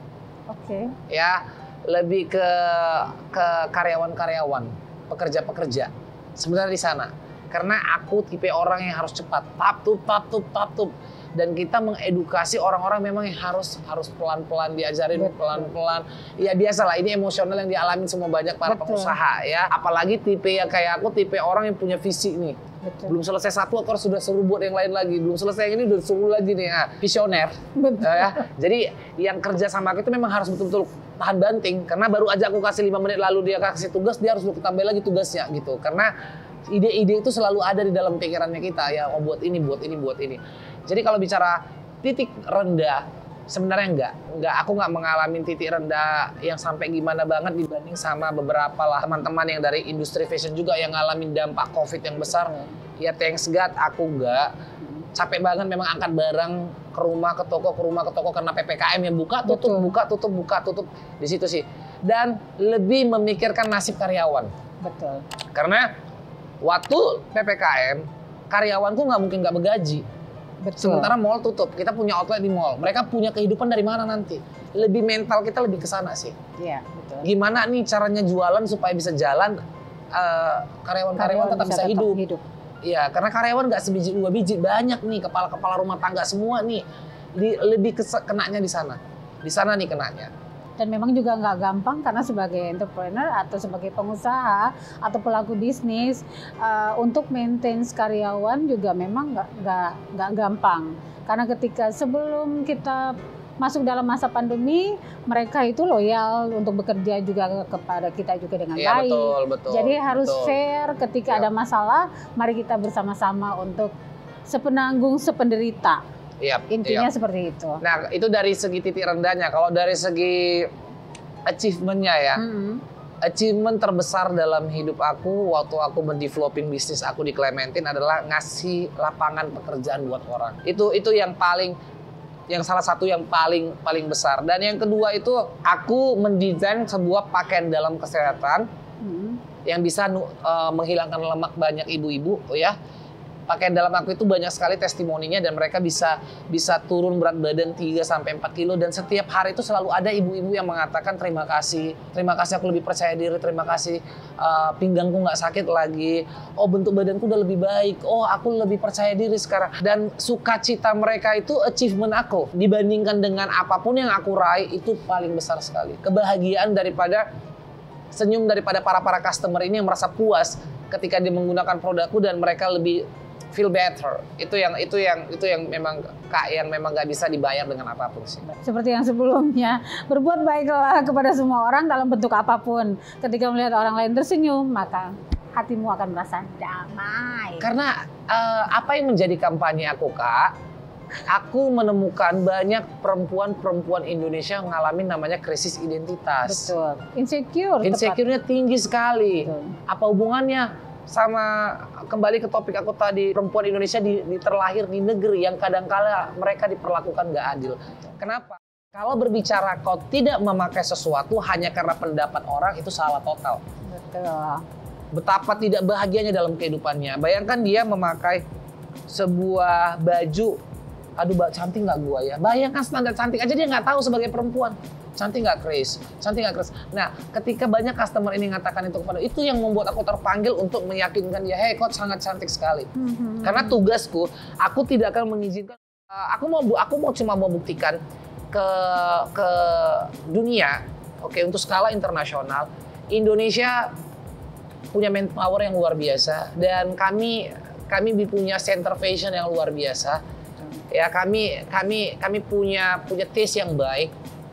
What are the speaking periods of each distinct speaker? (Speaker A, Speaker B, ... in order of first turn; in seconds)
Speaker A: 0.5-0.9, 15.1-15.7, 18.6-19.1, 22.8-23.1, 27.8-28.4, 52.3-52.7, 59.5-59.9, 64.8-65.2, 70.6-71.1, 76.6-77.3, 81.2-82.4, 90.8-113.9, 114.5-116.0, 116.7-117.8, 122.3-122.8, 139.0-139.4, 178.4-187.7, 196.4-198.2, 199.4-199.7, 213.9-214.6, 232.9-233.8
Speaker B: 1.1-36.1, 36.7-54.5, 55.1-64.5, 65.5-65.9, 66.6-70.0, 70.8-76.3, 77.2-79.6, 80.1-82.2, 82.8-86.8, 87.3-90.3, 108.8-110.6, 116.4-117.1, 117.8-120.7, 121.5-122.4, 123.2-131.8, 132.5-138.7, 139.6-142.8, 143.5-167.2, 168.1-178.4, 187.6-190.5, 191.3-196.7, 197.8-213.6, 215.1-218.4, 219.1-220.6, 221.2-232.9, 233.4-238.0, 238.5-243.9, 244.9-250.2, 250.9-254.1